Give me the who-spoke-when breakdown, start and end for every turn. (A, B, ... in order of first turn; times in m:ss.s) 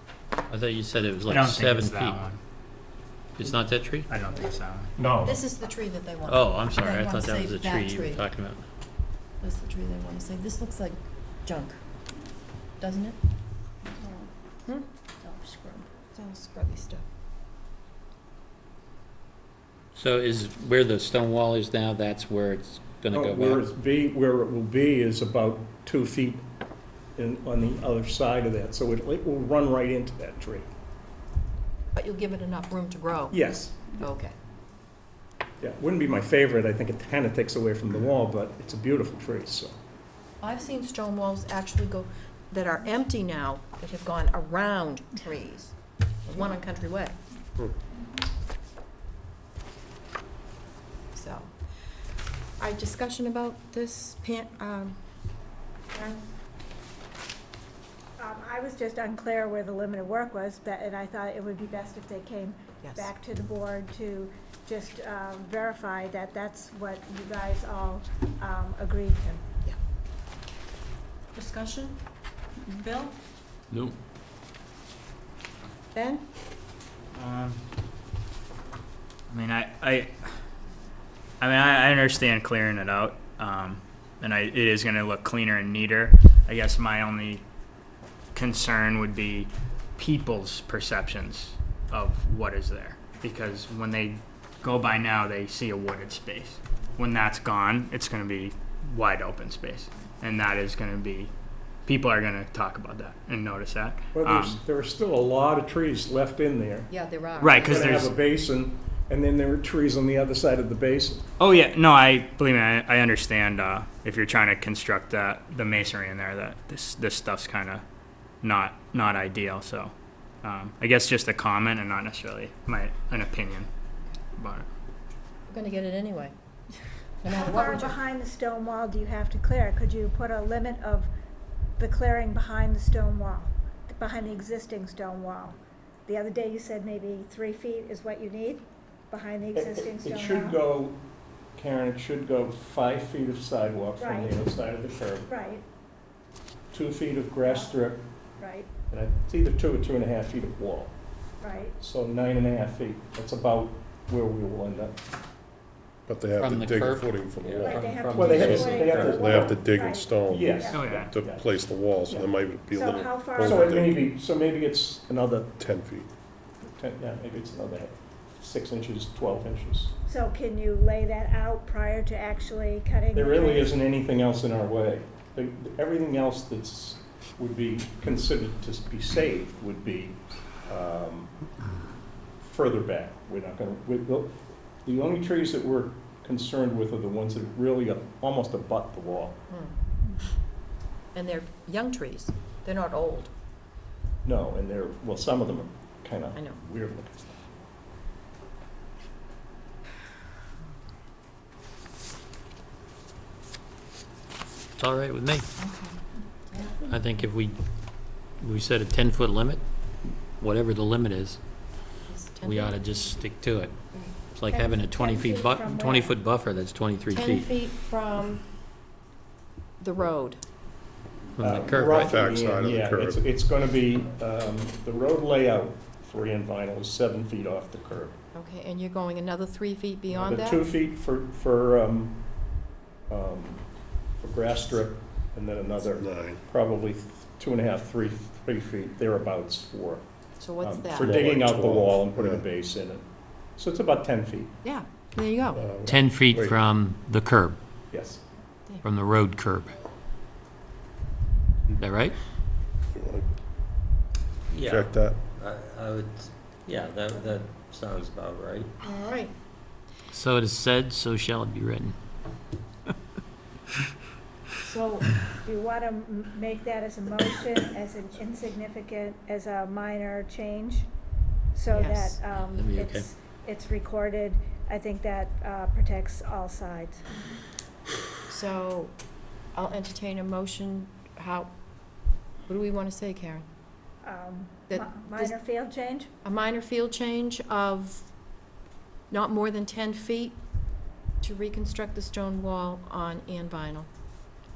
0:00.5-0:02.2 A
0:01.3-0:02.4 B
0:03.4-0:04.1 A
0:04.1-0:04.9 B
0:05.0-0:05.3 C
0:05.2-0:08.2 D
0:06.2-0:08.6 A
0:09.4-0:11.8 D
0:12.8-0:13.2 D
0:13.8-0:14.3 E
0:15.2-0:15.8 E
0:16.1-0:17.0 D
0:19.9-0:23.6 A
0:23.1-0:26.4 C
0:27.2-0:30.6 C
0:31.9-0:34.3 D
0:33.3-0:33.9 C
0:35.6-0:39.8 C
0:40.4-0:47.2 D
0:51.1-0:51.5 D
0:52.6-0:55.0 D
0:55.9-0:56.2 D
0:58.2-1:09.4 E
1:02.8-1:03.1 D
1:11.3-1:12.0 D
1:12.6-1:13.1 D
1:15.9-1:16.2 D
1:17.1-1:17.6 B
1:19.3-1:20.3 B
1:21.4-1:27.4 B
1:28.3-1:41.3 B
1:41.8-1:44.6 B
1:44.1-1:46.9 C
1:46.9-1:48.0 D
1:47.4-1:48.1 B
1:47.6-1:51.2 C
1:51.4-1:57.8 B
1:58.4-1:59.9 B
2:00.4-2:03.7 B
2:04.4-2:04.7 B
2:05.5-2:06.3 D
2:07.2-2:08.0 D
2:07.3-2:11.1 E
2:11.8-2:20.7 E
2:19.5-2:21.0 C
2:21.5-2:25.3 C
2:24.0-2:24.6 E
2:25.2-2:25.6 E
2:26.7-2:28.0 C
2:27.4-2:27.8 E
2:28.4-2:28.8 E
2:28.9-2:30.9 C
2:31.4-2:31.8 E
2:31.8-2:35.0 C
2:36.1-2:44.0 F
2:36.4-2:37.4 A
2:37.4-2:38.2 G
2:37.7-2:41.0 E
2:37.9-2:39.4 A
2:38.1-2:39.7 C
2:40.2-2:41.5 C
2:40.7-2:41.1 B
2:42.1-2:42.3 C
2:42.7-2:43.8 E
2:43.4-2:45.6 C
2:45.6-2:46.1 F
2:46.8-2:49.9 C
2:50.0-2:53.8 E
2:53.1-3:01.4 C
3:02.4-3:04.3 C
3:04.8-3:09.4 C
3:09.5-3:09.8 D
3:11.1-3:13.3 D
3:14.2-3:17.4 C
3:16.3-3:16.6 D
3:24.8-3:25.5 A
3:25.6-3:26.0 D
3:26.5-3:26.8 D
3:26.8-3:27.6 A
3:28.4-3:29.6 A
3:30.4-3:31.4 A
3:32.1-3:32.8 D
3:32.4-3:33.7 A
3:34.3-3:37.5 A
3:34.5-3:36.2 E
3:37.1-3:38.4 D
3:39.8-3:40.4 D
3:41.4-3:42.2 A
3:41.4-3:48.2 C
3:41.8-3:43.2 F
3:48.3-3:50.6 D
3:50.2-3:52.2 C
3:53.1-3:53.7 C
3:54.2-4:00.0 C
3:56.0-3:56.4 F
4:00.4-4:01.1 D
4:00.6-4:03.0 C
4:00.9-4:02.4 F
4:03.6-4:04.5 C
4:04.6-4:05.6 D
4:05.5-4:06.6 F
4:05.8-4:07.6 A
4:07.9-4:08.2 C
4:08.8-4:09.8 A
4:11.8-4:12.2 A
4:12.9-4:13.3 F
4:14.6-4:15.2 F
4:15.4-4:18.6 G
4:18.8-4:19.3 D
4:20.1-4:21.9 A
4:24.6-4:25.1 D
4:25.4-4:30.9 E
4:31.5-4:37.0 E
4:31.7-4:32.2 D
4:32.3-4:33.1 A
4:38.3-4:38.9 D
4:39.5-4:41.5 D
4:42.4-4:43.4 D
4:44.0-4:46.1 E
4:44.7-4:45.4 D
4:46.2-4:48.1 D
4:49.1-4:50.4 D
4:51.2-4:53.9 D